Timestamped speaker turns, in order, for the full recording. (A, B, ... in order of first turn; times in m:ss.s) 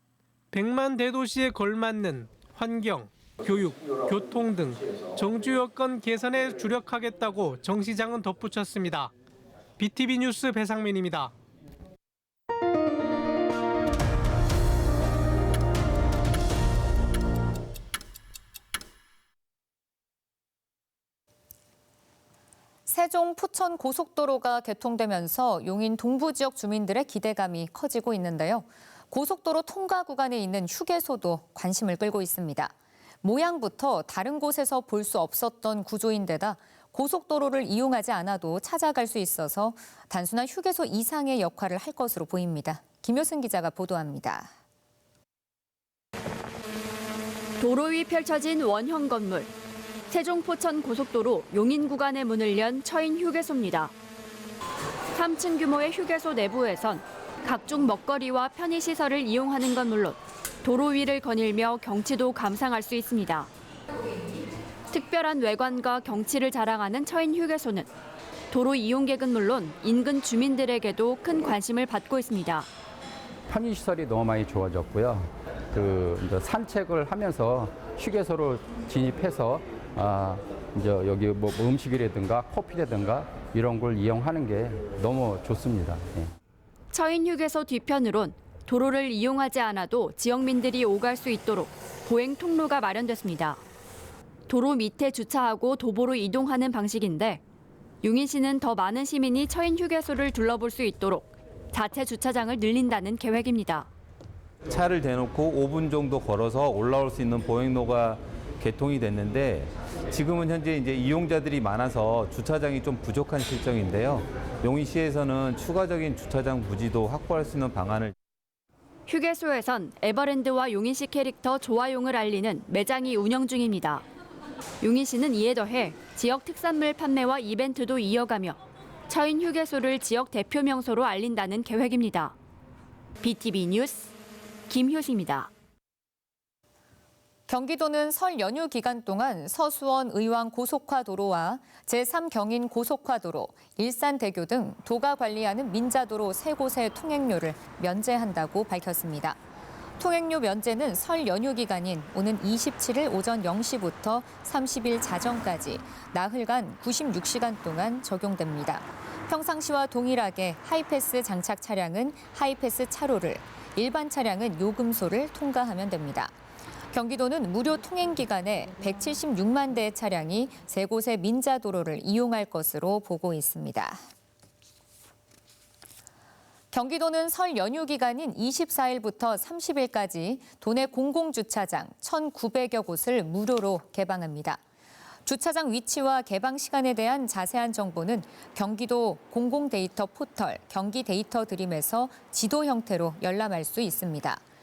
0:00.5-0:09.1 A
0:09.8-0:11.3 A
0:22.9-0:44.5 B
0:47.6-0:49.5 C
0:50.1-0:53.9 C
0:55.1-1:03.5 C
1:04.9-1:07.9 C
1:08.5-1:12.7 C
1:13.6-1:15.1 D
1:16.5-1:17.7 D
1:18.3-1:18.6 D
1:19.3-1:19.5 D
1:21.0-1:23.1 D
1:23.7-1:24.5 D
1:26.9-1:33.6 C
1:34.5-1:37.4 C
1:38.0-1:43.9 C
1:44.7-1:58.1 E
1:59.1-2:04.0 C
2:04.8-2:12.4 C
2:13.2-2:14.1 C
2:14.7-2:15.5 C
2:17.5-2:29.4 B
2:30.0-2:46.3 B
2:46.9-2:54.0 B
2:56.7-3:04.6 B
3:05.2-3:14.4 B